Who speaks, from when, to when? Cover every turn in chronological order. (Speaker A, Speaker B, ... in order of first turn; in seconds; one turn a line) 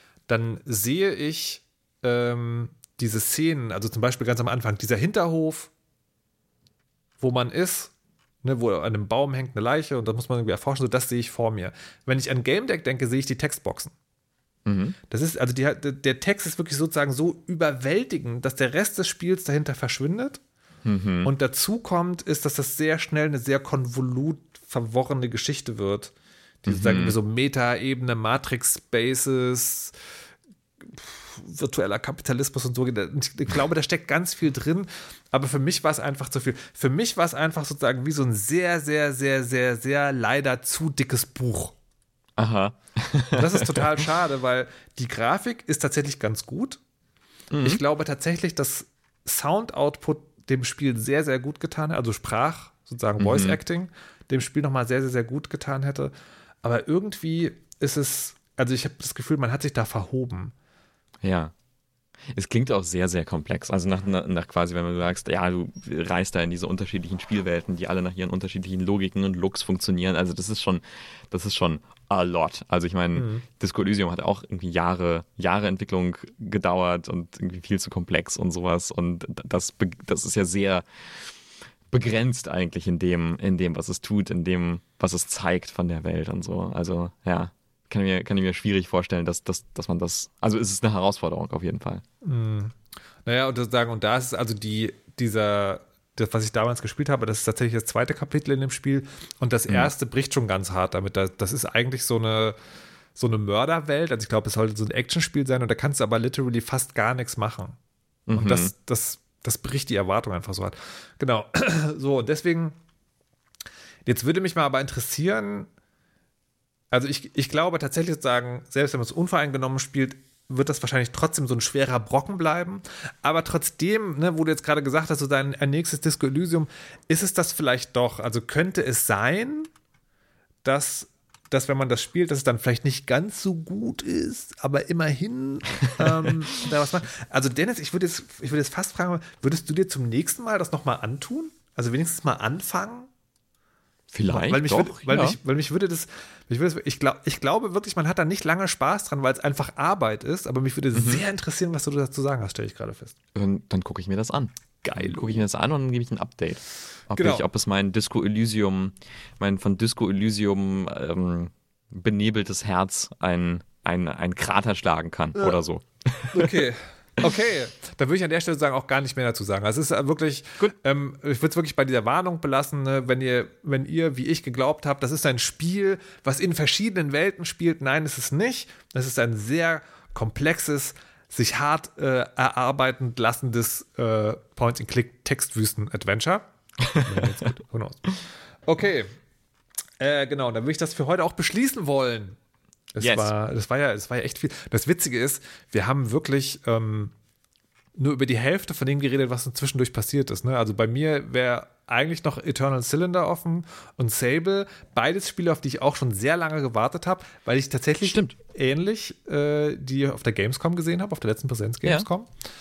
Speaker A: 0.3-5.7
Speaker A: 7.2-13.9
Speaker B: 14.7-15.0
Speaker A: 15.1-20.4
Speaker B: 20.8-21.3
Speaker A: 21.2-26.1
Speaker A: 26.6-29.9
Speaker B: 26.7-27.1
Speaker A: 30.8-41.7
Speaker B: 42.4-44.0
Speaker A: 43.3-46.8
Speaker B: 47.5-47.8
Speaker A: 47.6-56.1
Speaker B: 53.2-53.6
Speaker A: 56.6-60.5
Speaker B: 61.2-61.5
Speaker B: 62.3-81.3
Speaker A: 73.2-73.4
Speaker B: 81.9-92.0
Speaker A: 92.2-102.5
Speaker A: 103.2-107.8
Speaker B: 108.3-108.7
Speaker A: 108.3-112.8
Speaker A: 114.0-115.7
Speaker A: 116.9-129.7
Speaker A: 130.6-143.1
Speaker B: 144.1-145.4
Speaker A: 144.3-153.1
Speaker B: 150.9-151.2
Speaker B: 153.3-166.5
Speaker A: 154.9-155.4
Speaker A: 157.1-157.5
Speaker A: 165.3-165.6
Speaker A: 166.3-189.1
Speaker B: 186.8-187.5
Speaker A: 190.0-192.4
Speaker A: 192.9-197.1
Speaker B: 193.0-193.3
Speaker A: 197.9-212.3
Speaker B: 208.0-208.3